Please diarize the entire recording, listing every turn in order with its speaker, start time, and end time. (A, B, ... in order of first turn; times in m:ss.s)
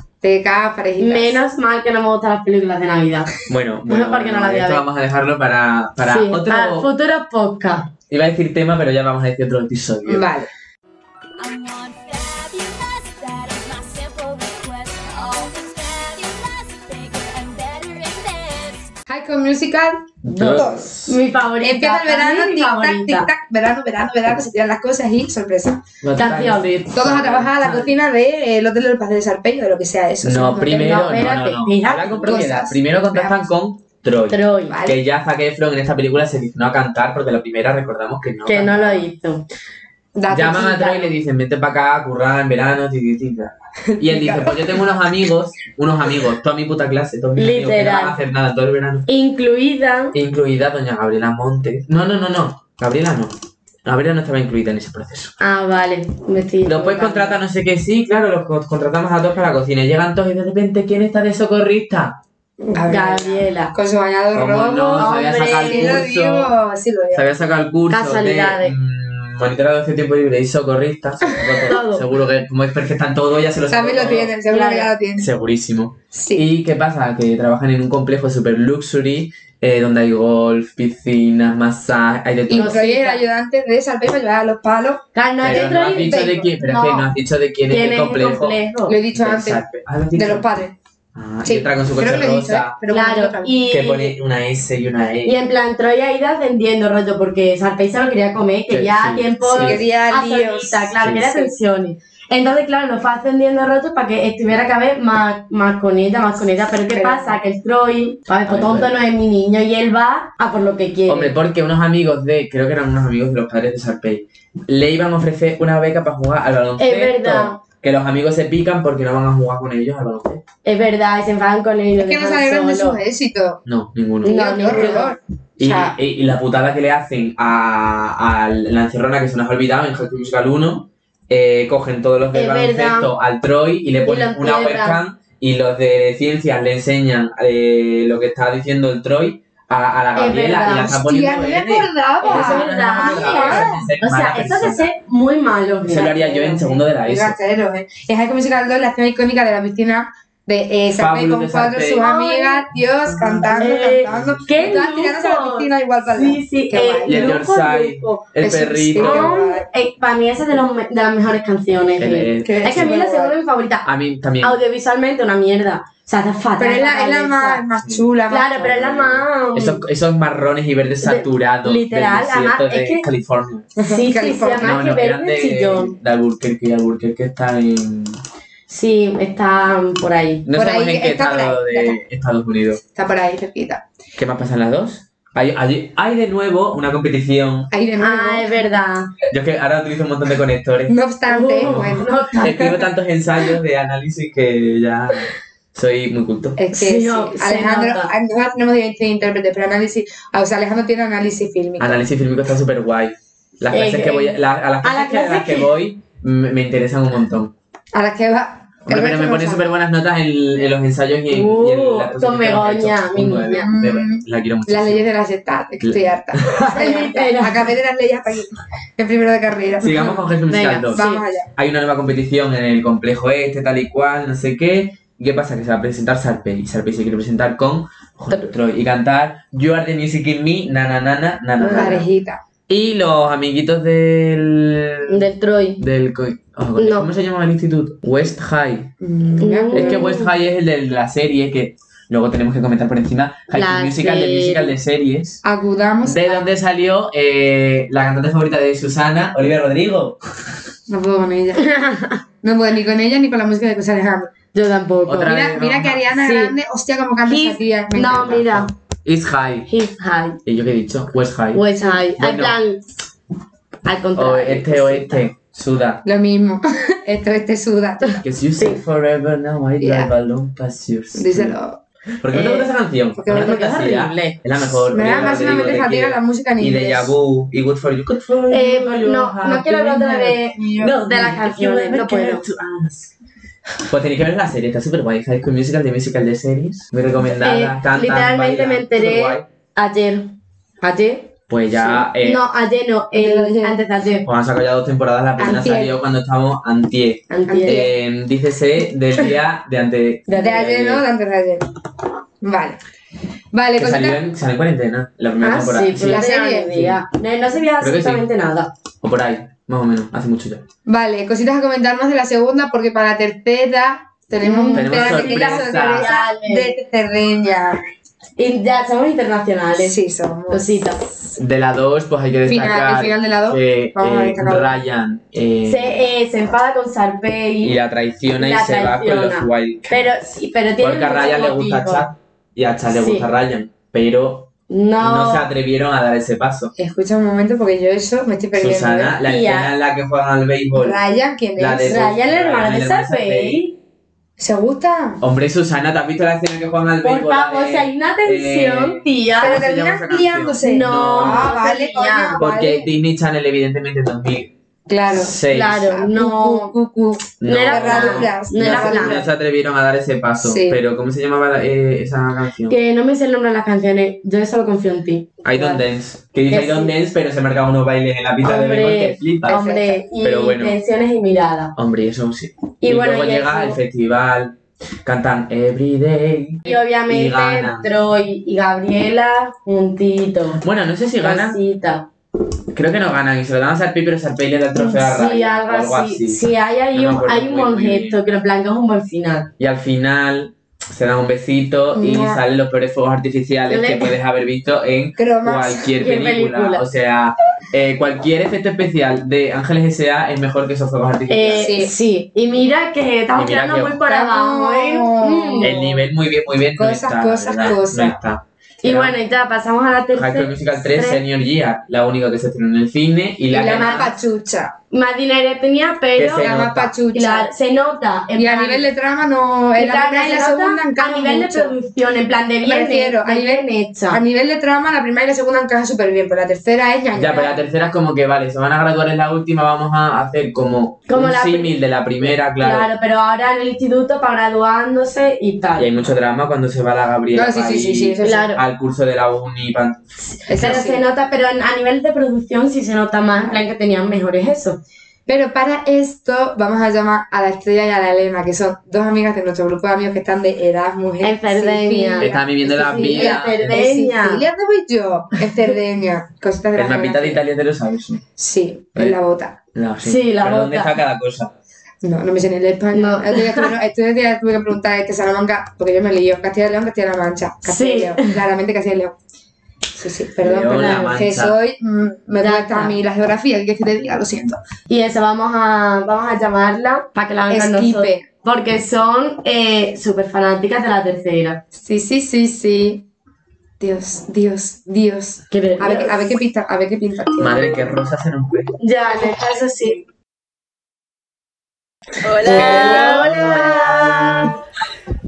0:00.2-0:01.4 A
0:01.0-0:03.4 B
0:03.5-0:06.9 C
0:03.9-0:04.8 B
0:06.0-0:07.9 B
0:08.1-0:10.2 C
0:10.1-0:10.5 A
0:11.6-0:18.8 D
0:19.1-0:20.9 A
0:20.2-0:21.2 C
0:20.3-0:23.3 B
0:21.6-0:25.9 A
0:26.0-0:28.0 C
0:26.2-0:26.8 B
0:26.9-0:31.0 A
0:30.2-0:39.1 C
0:30.8-0:32.5 B
0:32.3-0:33.5 A
0:34.3-0:34.8 B
0:34.7-0:35.0 A
0:38.5-0:39.5 B
0:40.2-0:41.1 A
0:40.3-0:49.1 C
0:43.9-0:44.8 A
0:47.4-0:48.2 B
0:49.1-0:50.2 B
0:50.1-0:53.3 C
0:53.8-0:55.3 C
0:55.4-0:57.3 B
0:56.6-1:02.2 C
1:02.6-1:07.3 A
1:02.8-1:03.7 B
1:04.3-1:06.5 C
1:04.9-1:06.0 B
1:07.1-1:14.3 C
1:07.9-1:08.7 B
1:11.4-1:11.7 A
1:11.7-1:12.0 B
1:13.7-1:15.3 A
1:14.5-1:14.9 B
1:15.2-1:22.8 C
1:16.1-1:16.4 A
1:22.5-1:26.5 A
1:22.5-1:23.2 B
1:25.2-1:27.1 B
1:25.4-1:28.6 C
1:27.7-1:29.0 B
1:28.9-1:29.6 A
1:29.1-1:30.5 C
1:30.1-1:30.8 A
1:31.2-1:32.8 C
1:31.4-1:33.6 A
1:32.9-1:34.2 B
1:33.7-1:35.4 C
1:35.2-1:51.3 B
1:38.7-1:39.8 C
1:39.5-1:41.5 A
1:41.0-1:41.3 C
1:46.9-1:47.4 A
1:48.5-1:49.0 C
1:51.1-2:00.4 C
1:56.8-1:57.6 B
2:00.6-2:03.0 B
2:02.0-2:03.6 A
2:03.7-2:05.0 C
2:04.2-2:06.0 A
2:04.2-2:05.2 B
2:05.6-2:24.9 C
2:12.3-2:13.1 B
2:14.0-2:15.0 B
2:20.2-2:21.0 B
2:20.9-2:23.9 A
2:22.2-2:26.8 B
2:25.8-2:27.4 C
2:27.0-2:37.4 A
2:30.9-2:32.0 C
2:32.0-2:32.6 B
2:33.1-2:34.8 C
2:33.6-2:38.3 B
2:37.1-2:39.4 C
2:38.4-2:39.7 A
2:39.0-2:43.9 B
2:42.0-2:43.0 C
2:42.4-2:43.4 A
2:43.8-2:44.6 C
2:44.4-2:47.6 B
2:46.6-2:48.8 A
2:47.8-2:53.7 C
2:48.3-2:49.8 B
2:51.0-2:53.1 B
2:53.8-2:54.8 A
2:53.8-2:56.0 B
2:54.6-2:58.2 C
2:58.7-3:00.5 B
3:00.4-3:02.8 C
3:00.6-3:02.0 A
3:02.9-3:03.8 A
3:04.2-3:07.7 C
3:07.7-3:08.6 A
3:08.0-3:09.2 B
3:09.3-3:11.0 C
3:10.9-3:12.8 A
3:11.3-3:12.7 B
3:11.6-3:16.6 C
3:16.6-3:22.0 A
3:16.7-3:18.1 B
3:21.8-3:27.5 C
3:23.7-3:25.7 B
3:27.9-3:29.6 A
3:28.9-3:35.1 C
3:31.3-3:33.7 B
3:33.6-3:40.3 A
3:35.8-3:36.5 C
3:36.4-3:37.7 B
3:39.8-3:41.0 C
3:40.5-3:41.2 B
3:40.9-3:41.5 A
3:41.6-3:52.1 C
3:51.6-3:52.0 B
3:51.7-3:52.4 A
3:52.7-3:55.3 C
3:55.1-3:55.8 B
3:55.8-3:58.9 C
3:56.8-3:57.1 B
3:59.0-4:00.0 A
3:59.4-4:00.3 B
3:59.7-4:05.4 C
4:03.5-4:04.7 B
4:05.4-4:06.4 A
4:06.0-4:10.6 C
4:10.9-4:11.7 A
4:11.6-4:12.2 B
4:12.4-4:14.3 A
4:14.5-4:15.4 B
4:15.1-4:16.0 C
4:15.2-4:18.4 A
4:16.2-4:16.6 B
4:17.3-4:18.7 B
4:18.0-4:19.7 C
4:19.7-4:20.4 B
4:20.4-4:22.6 C
4:21.5-4:22.8 B
4:23.8-4:25.3 B
4:24.1-4:26.0 C
4:26.0-4:28.2 A
4:28.2-4:31.6 C
4:29.8-4:30.1 A
4:31.1-4:31.8 A
4:32.2-4:43.1 C
4:32.3-4:32.7 B
4:33.2-4:33.6 A
4:33.3-4:34.4 B
4:34.9-4:37.1 A
4:38.5-4:42.5 B
4:43.9-4:49.5 C
4:47.3-4:54.3 B
4:51.5-4:52.4 C
4:53.2-4:53.8 A
4:54.2-5:01.1 C
4:55.4-4:55.9 A
4:57.3-4:57.9 B
4:57.5-4:57.9 A
5:00.3-5:00.6 B
5:00.3-5:01.7 A
5:02.4-5:02.8 A
5:03.5-5:04.2 A
5:03.8-5:07.0 C
5:05.4-5:08.7 B
5:06.0-5:06.8 A
5:07.8-5:08.3 C
5:09.0-5:10.6 C
5:10.9-5:17.8 A
5:14.4-5:16.7 B
5:14.7-5:16.1 C
5:18.4-5:21.0 B
5:19.8-5:21.3 A
5:21.4-5:26.0 C
5:22.5-5:24.7 A
5:25.7-5:27.8 B
5:27.6-5:30.1 C
5:28.4-5:32.1 B
5:30.8-5:34.5 C
5:32.9-5:33.3 B
5:34.7-5:35.5 B
5:35.0-5:36.7 C
5:36.8-5:39.2 A
5:38.5-5:41.0 C
5:39.2-5:39.7 B
5:40.8-5:42.0 A
5:41.6-5:43.6 C
5:41.8-5:43.8 B
5:44.4-5:45.2 A
5:45.2-5:51.6 C
5:47.0-5:49.7 B
5:49.4-5:52.9 A
5:50.6-5:52.4 B
5:52.4-5:54.5 C
5:54.9-5:59.3 A
5:55.1-5:56.0 C
5:55.5-5:56.8 B
5:57.4-6:02.8 C
5:57.4-5:59.2 B
6:00.4-6:00.8 A
6:02.7-6:05.4 B
6:05.4-6:09.6 C
6:05.5-6:05.8 A
6:06.5-6:06.9 B
6:08.4-6:11.8 B
6:09.5-6:10.0 A
6:10.2-6:10.8 C
6:11.8-6:17.9 C
6:12.8-6:13.8 B
6:16.6-6:20.6 B
6:20.6-6:21.6 C
6:21.2-6:22.1 B
6:22.7-6:28.2 C
6:24.8-6:29.5 B
6:29.6-6:41.8 C
6:32.0-6:32.4 A
6:33.7-6:34.2 B
6:35.2-6:35.9 A
6:36.0-6:36.8 B
6:41.3-6:45.8 B
6:41.6-6:41.9 A
6:43.3-6:44.0 C
6:44.0-6:46.0 A
6:45.6-6:49.2 C
6:46.8-6:48.2 A
6:48.8-6:51.2 B
6:50.1-6:54.1 C
6:53.5-6:54.1 B
6:53.5-6:54.7 A
6:54.9-6:56.5 B
6:56.2-6:57.0 C
6:56.4-6:57.5 A
6:57.1-6:58.9 B
6:58.4-7:01.8 A
6:59.8-7:04.2 B
7:02.6-7:07.6 A
7:07.1-7:12.9 C
7:11.1-7:15.9 B
7:15.8-7:20.9 C
7:17.3-7:18.5 A
7:18.2-7:18.6 B
7:20.5-7:24.8 B
7:20.5-7:21.0 A
7:25.3-7:37.4 A
7:31.2-7:34.5 B
7:32.2-7:33.9 C
7:36.8-7:38.2 C
7:38.4-7:39.6 A
7:39.8-7:41.5 C
7:40.0-7:40.9 B
7:42.0-7:49.2 A
7:42.9-7:43.7 B
7:47.6-7:48.4 B
7:50.0-7:54.6 A
7:50.4-7:51.6 C
7:50.7-7:51.1 B
7:52.4-7:53.0 B
7:54.9-8:01.6 B
7:57.5-7:58.3 A
8:01.7-8:03.0 A
8:03.8-8:07.7 A
8:05.5-8:06.4 B
8:07.4-8:08.7 C
8:08.8-8:10.0 B
8:12.2-8:13.3 D
8:12.4-8:14.5 C
8:12.4-8:14.6 B